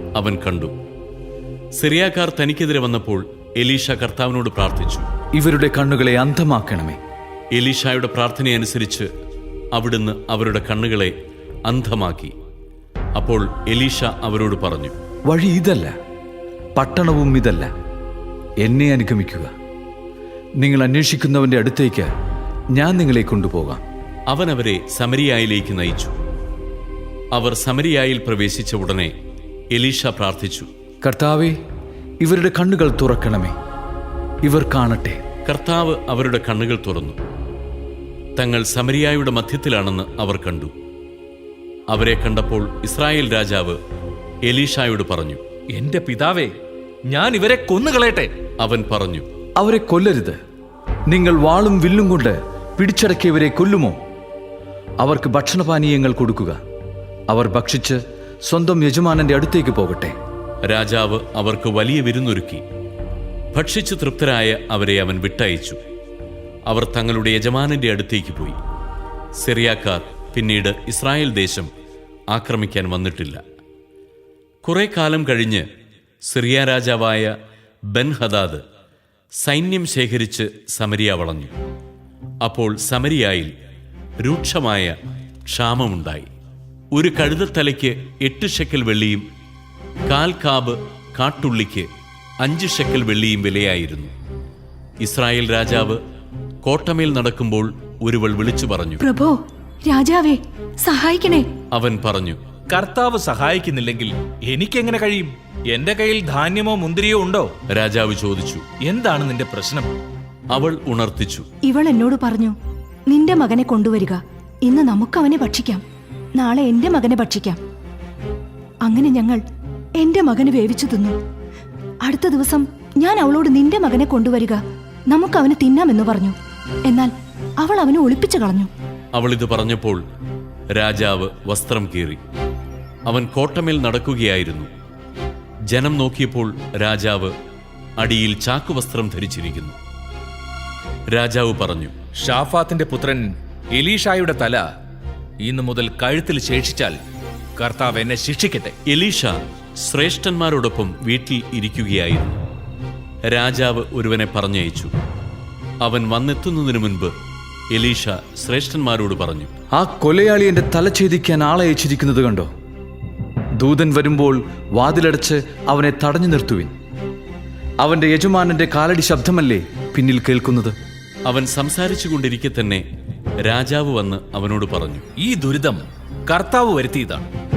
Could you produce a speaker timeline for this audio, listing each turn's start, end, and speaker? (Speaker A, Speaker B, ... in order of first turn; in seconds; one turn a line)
Speaker A: 0.2-0.8
Speaker A: 1.8-5.1
Speaker B: 5.4-7.0
Speaker A: 7.5-9.1
Speaker A: 9.7-11.2
Speaker A: 11.7-12.3
Speaker A: 13.2-15.0
Speaker B: 15.3-15.9
Speaker B: 16.8-17.7
Speaker B: 18.6-19.5
Speaker B: 20.6-22.1
Speaker B: 22.8-23.8
Speaker A: 24.3-26.2
Speaker A: 27.3-29.1
Speaker A: 29.7-30.7
Speaker B: 31.1-31.5
Speaker B: 32.2-33.5
Speaker B: 34.5-35.2
Speaker A: 35.5-37.2
Speaker A: 38.4-40.7
Speaker A: 41.9-43.8
Speaker A: 44.5-45.4
Speaker C: 45.7-46.5
Speaker C: 47.1-48.3
Speaker A: 48.6-49.3
Speaker B: 49.6-50.3
Speaker B: 51.1-53.9
Speaker B: 55.0-56.6
Speaker B: 57.3-57.9
Speaker B: 58.5-60.1
Speaker A: 60.6-62.6
Speaker A: 63.5-65.8
Speaker A: 66.7-68.6
Speaker A: 69.4-71.7
Speaker A: 72.3-73.4
Speaker A: 74.7-75.7
Speaker A: 76.2-77.3
Speaker A: 77.9-78.6
Speaker A: 79.4-81.5
Speaker A: 82.4-83.5
Speaker A: 84.2-85.0
Speaker A: 85.5-86.3
Speaker A: 86.9-89.3
Speaker A: 90.1-91.9
Speaker A: 92.4-94.1
Speaker A: 95.0-96.0
Speaker A: 96.6-99.0
Speaker D: 99.0-101.5
Speaker A: 101.7-102.4
Speaker C: 102.7-107.5
Speaker A: 107.7-108.7
Speaker C: 108.8-109.9
Speaker A: 110.5-111.5
Speaker D: 111.7-112.5
Speaker D: 113.1-115.8
Speaker D: 116.4-117.6
Speaker D: 118.8-119.4
Speaker D: 120.0-121.2
Speaker D: 122.0-126.3
Speaker D: 126.9-128.7
Speaker A: 129.2-130.0
Speaker A: 130.7-132.2
Speaker A: 133.1-134.7
Speaker A: 135.7-137.3
Speaker A: 138.0-139.8
Speaker A: 141.1-141.9
Speaker C: 142.2-144.6
Speaker C: 145.4-147.0
Speaker C: 147.6-148.8
Speaker A: 148.9-152.4
Speaker A: 153.3-154.9
Speaker A: 155.8-157.1
Speaker A: 157.7-159.5
Speaker B: 159.8-162.5
Speaker B: 163.6-166.7
Speaker B: 167.8-170.7
Speaker A: 171.3-172.8
Speaker A: 173.4-175.1
Speaker C: 175.2-177.3